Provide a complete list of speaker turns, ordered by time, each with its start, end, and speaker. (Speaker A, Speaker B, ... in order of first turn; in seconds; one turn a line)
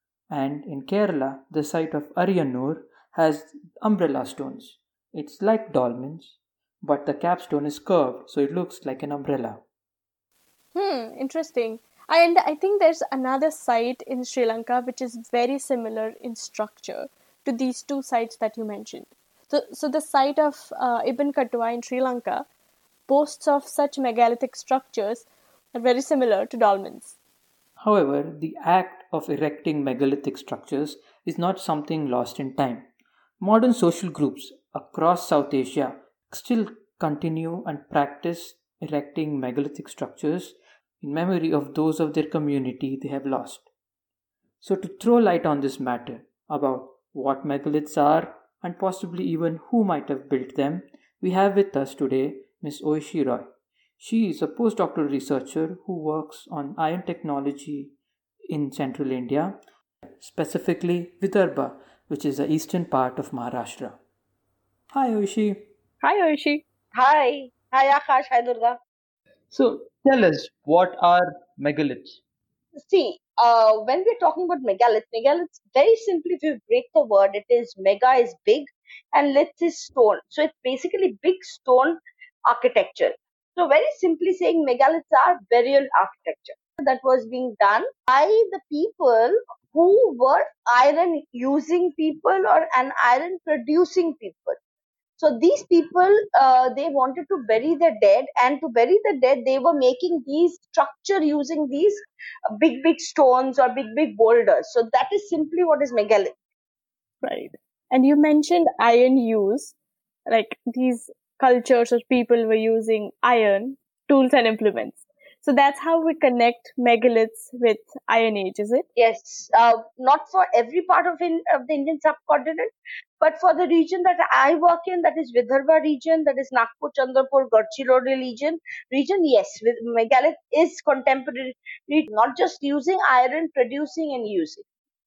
Speaker A: 0.3-9.6
Speaker B: 10.7-22.4
Speaker B: 23.1-27.1
Speaker A: 27.8-32.9
Speaker A: 33.4-43.6
Speaker A: 44.6-57.9
Speaker A: 58.5-59.6
Speaker A: 60.2-64.0
Speaker A: 64.9-65.7
Speaker B: 66.0-66.6
Speaker C: 66.9-68.8
Speaker A: 69.5-72.2
Speaker C: 72.8-94.6
Speaker C: 95.2-102.0
Speaker C: 102.5-106.3
Speaker B: 107.2-109.7
Speaker B: 110.3-118.8
Speaker C: 119.0-134.6